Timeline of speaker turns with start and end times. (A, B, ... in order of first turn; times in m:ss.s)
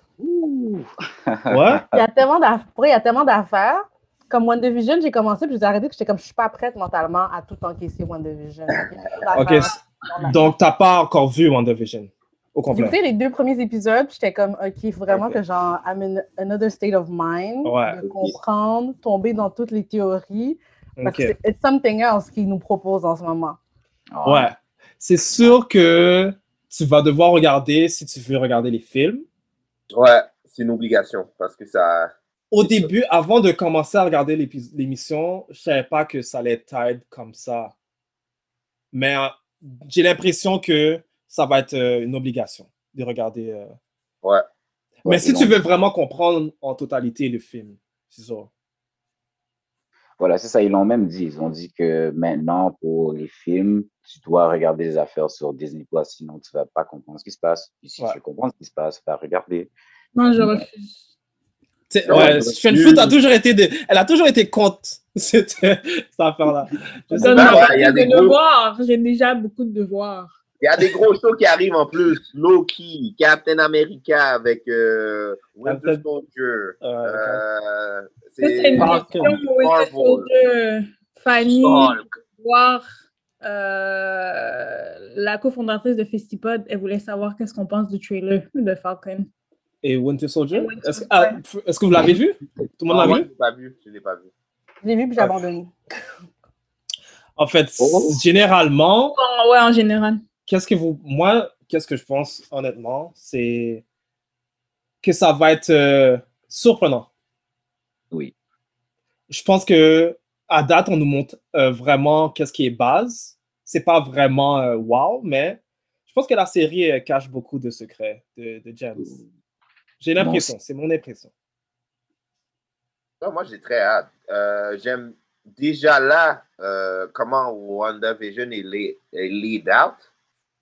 0:00.2-0:02.0 A
0:01.5-0:01.8 B
0:01.9-0:10.4 C
0:09.3-0:13.0 B
0:12.7-0:23.6 C
0:15.1-0:15.4 B
0:17.6-0:18.0 B
0:21.0-0:21.3 B
0:24.1-0:24.5 A
0:24.2-0:29.2 B
0:29.9-0:32.9 D
0:32.5-0:37.7 B
0:38.9-0:43.7 B
0:45.0-0:45.6 A
0:45.0-0:48.5 B
0:50.2-0:59.7 A
1:00.1-1:01.0 E
1:00.3-1:00.6 A
1:01.9-1:07.8 B
1:02.0-1:03.2 D
1:02.1-1:02.4 A
1:07.1-1:10.3 E
1:07.2-1:08.4 D
1:10.6-1:20.3 D
1:15.6-1:16.0 B
1:16.8-1:17.4 B
1:18.4-1:22.8 E
1:18.8-1:19.4 B
1:21.4-1:22.1 D
1:23.4-1:29.3 E
1:29.8-1:33.3 B
1:30.5-1:31.4 E
1:32.9-1:34.3 D
1:34.8-1:35.7 C
1:37.4-1:39.1 B
1:37.8-1:38.2 A
1:39.1-1:40.2 E
1:40.5-1:43.8 B
1:45.0-1:47.1 B
1:49.3-1:59.2 B
2:00.0-2:01.3 B
2:00.2-2:00.5 A
2:03.2-2:10.0 D